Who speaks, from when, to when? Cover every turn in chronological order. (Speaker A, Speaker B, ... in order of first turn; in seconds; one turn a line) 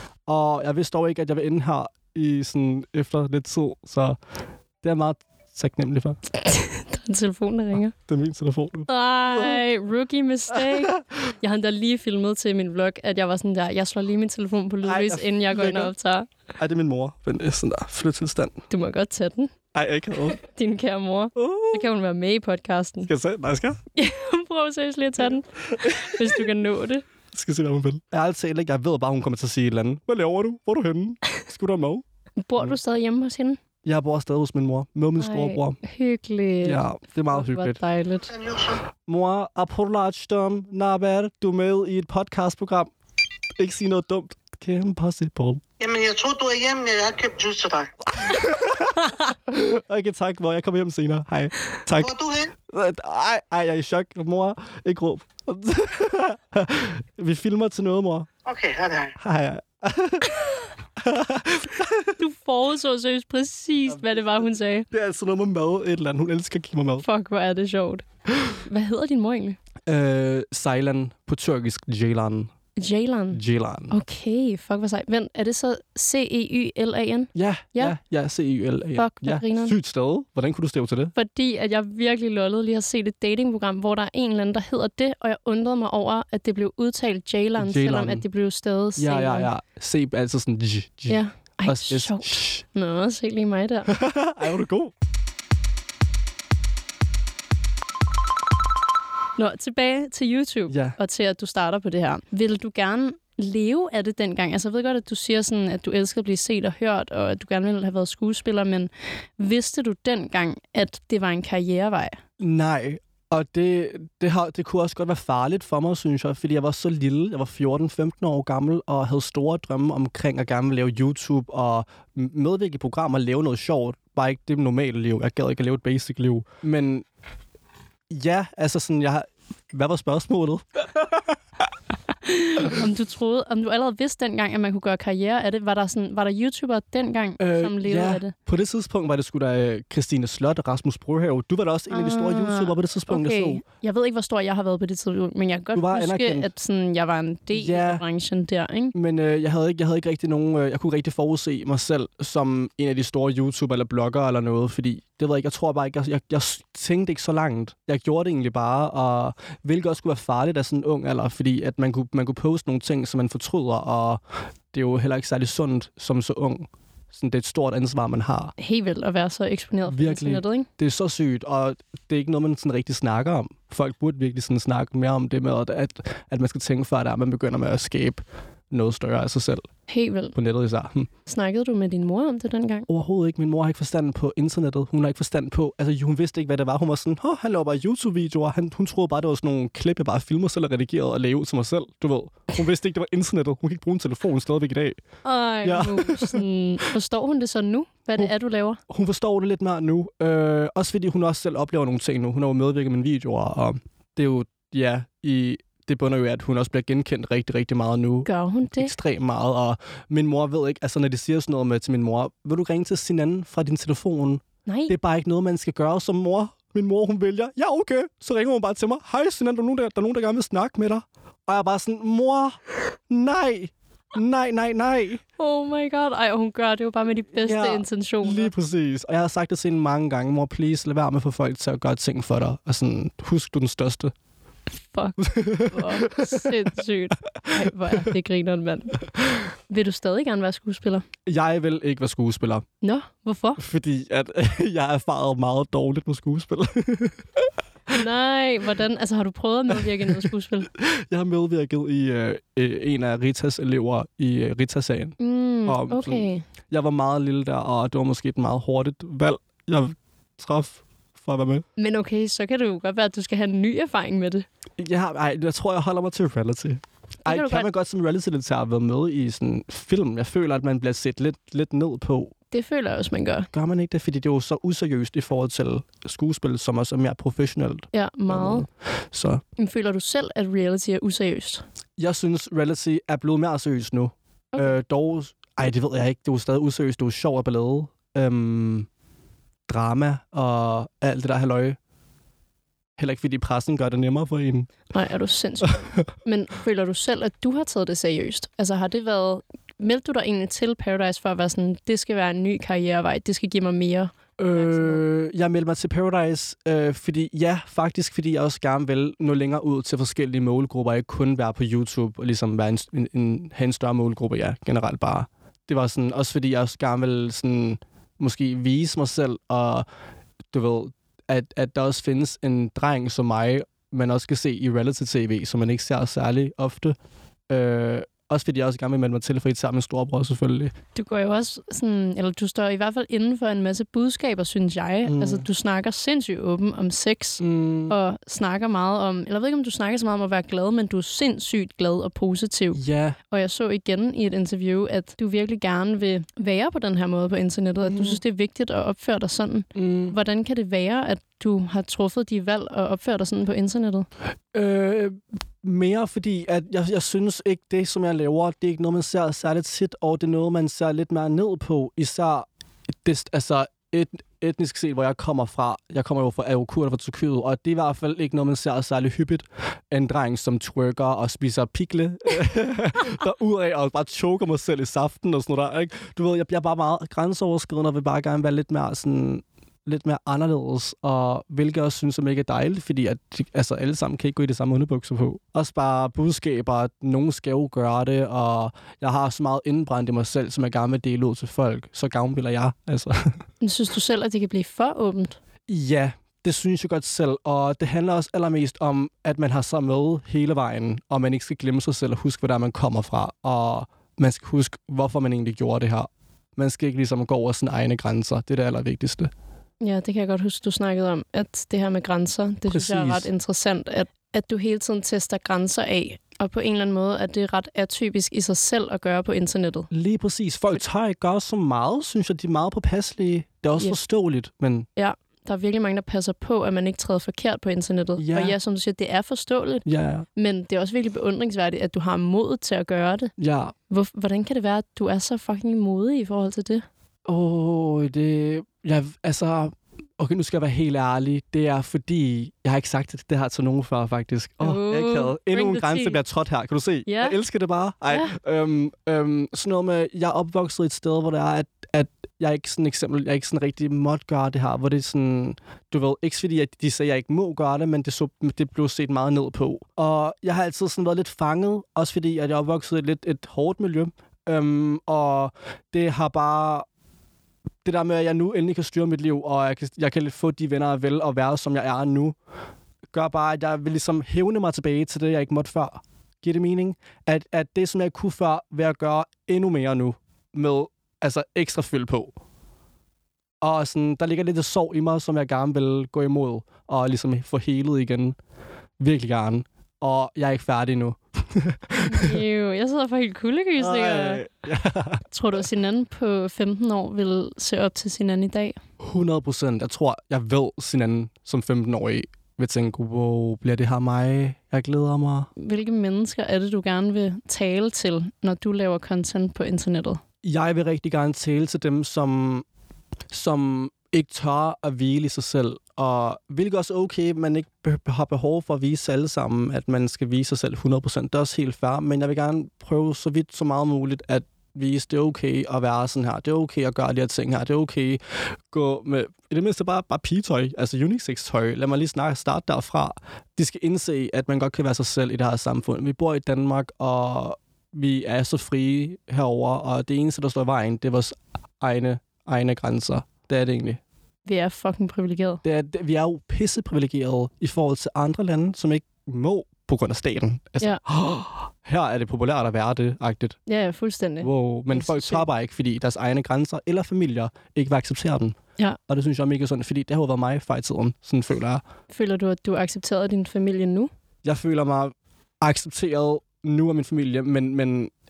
Speaker A: 0.3-4.2
Speaker A: 4.8-6.2
Speaker B: 6.5-7.9
Speaker A: 8.1-9.6
Speaker B: 8.9-16.3
Speaker A: 10.5-11.0
Speaker A: 14.8-15.9
Speaker A: 16.6-18.6
Speaker B: 18.7-19.5
Speaker A: 19.7-20.4
Speaker B: 20.4-23.1
Speaker A: 21.4-21.9
Speaker A: 23.1-23.8
Speaker B: 24.0-27.1
Speaker A: 25.6-26.4
Speaker A: 27.3-32.0
Speaker B: 32.4-33.6
Speaker A: 33.8-35.8
Speaker B: 35.2-38.3
Speaker A: 36.6-37.8
Speaker C: 38.3-38.8
Speaker A: 39.0-42.9
Speaker A: 43.6-45.6
Speaker C: 45.8-47.9
Speaker A: 48.2-52.1
Speaker C: 52.0-52.5
Speaker A: 52.7-58.3
Speaker C: 58.5-59.2
Speaker A: 59.2-60.3
Speaker A: 61.0-62.2
Speaker B: 62.2-64.9
Speaker A: 63.9-64.2
Speaker A: 64.9-67.1
Speaker B: 67.0-69.6
Speaker A: 69.9-72.5
Speaker B: 72.8-78.0
Speaker A: 73.3-74.0
Speaker A: 77.3-81.1
Speaker B: 79.0-79.8
Speaker B: 81.2-89.5
Speaker A: 87.6-88.3
Speaker A: 89.0-92.6
Speaker B: 91.1-93.9
Speaker A: 93.9-94.9
Speaker B: 99.4-112.2
Speaker A: 100.7-101.0
Speaker A: 112.4-127.1
Speaker A: 128.1-131.1
Speaker B: 132.3-138.3
Speaker A: 137.4-143.6
Speaker B: 141.9-148.9
Speaker A: 145.7-146.5
Speaker A: 147.5-148.0
Speaker A: 148.9-164.2
Speaker A: 164.7-168.5
Speaker B: 168.6-170.7
Speaker A: 169.9-179.7
Speaker B: 179.9-180.3
Speaker A: 180.3-181.1
Speaker B: 181.3-182.9
Speaker A: 182.9-195.0
Speaker B: 195.2-198.8
Speaker A: 195.6-196.4
Speaker A: 198.9-225.2
Speaker B: 208.3-208.9
Speaker B: 214.7-214.9
Speaker B: 225.4-228.5
Speaker A: 227.4-234.1
Speaker B: 234.9-239.0
Speaker A: 235.2-236.5
Speaker A: 237.5-238.1
Speaker B: 239.7-241.1
Speaker A: 241.3-242.7
Speaker B: 242.8-243.6
Speaker A: 243.6-247.5
Speaker B: 247.9-250.7
Speaker A: 249.8-261.7
Speaker B: 255.2-256.4
Speaker B: 261.8-264.5
Speaker A: 264.8-272.3
Speaker B: 267.2-267.7
Speaker B: 272.5-273.5
Speaker A: 273.5-279.4
Speaker B: 277.9-278.7
Speaker B: 279.6-281.6
Speaker A: 282.0-288.9
Speaker A: 289.7-291.8
Speaker A: 293.0-294.7
Speaker B: 294.9-305.0
Speaker A: 304.4-319.9
Speaker A: 320.5-327.0
Speaker A: 327.5-330.7
Speaker B: 330.9-354.1
Speaker A: 335.1-335.5
Speaker A: 337.4-338.0
Speaker A: 342.7-343.2
Speaker A: 347.8-348.2
Speaker A: 349.8-350.1
Speaker A: 354.5-362.5
Speaker A: 363.0-393.4
Speaker B: 393.6-395.4
Speaker A: 395.7-409.3
Speaker B: 409.8-419.9
Speaker A: 412.7-413.3
Speaker A: 419.9-424.9
Speaker B: 425.0-433.3
Speaker A: 428.2-428.6
Speaker A: 429.9-430.3
Speaker A: 433.4-433.7
Speaker B: 433.9-436.9
Speaker A: 437.2-466.9
Speaker B: 444.6-446.2
Speaker B: 447.1-447.4
Speaker A: 467.8-472.4
Speaker A: 473.1-482.4
Speaker A: 483.6-488.4
Speaker A: 489.0-492.4
Speaker B: 492.1-494.4
Speaker A: 493.8-495.2
Speaker B: 495.3-498.8
Speaker A: 499.0-505.5
Speaker B: 505.6-510.2
Speaker A: 510.4-512.6
Speaker A: 513.3-544.0
Speaker B: 544.5-545.6
Speaker A: 545.6-553.6
Speaker B: 553.7-555.5
Speaker A: 554.4-561.8
Speaker B: 562.1-564.1
Speaker A: 564.4-568.1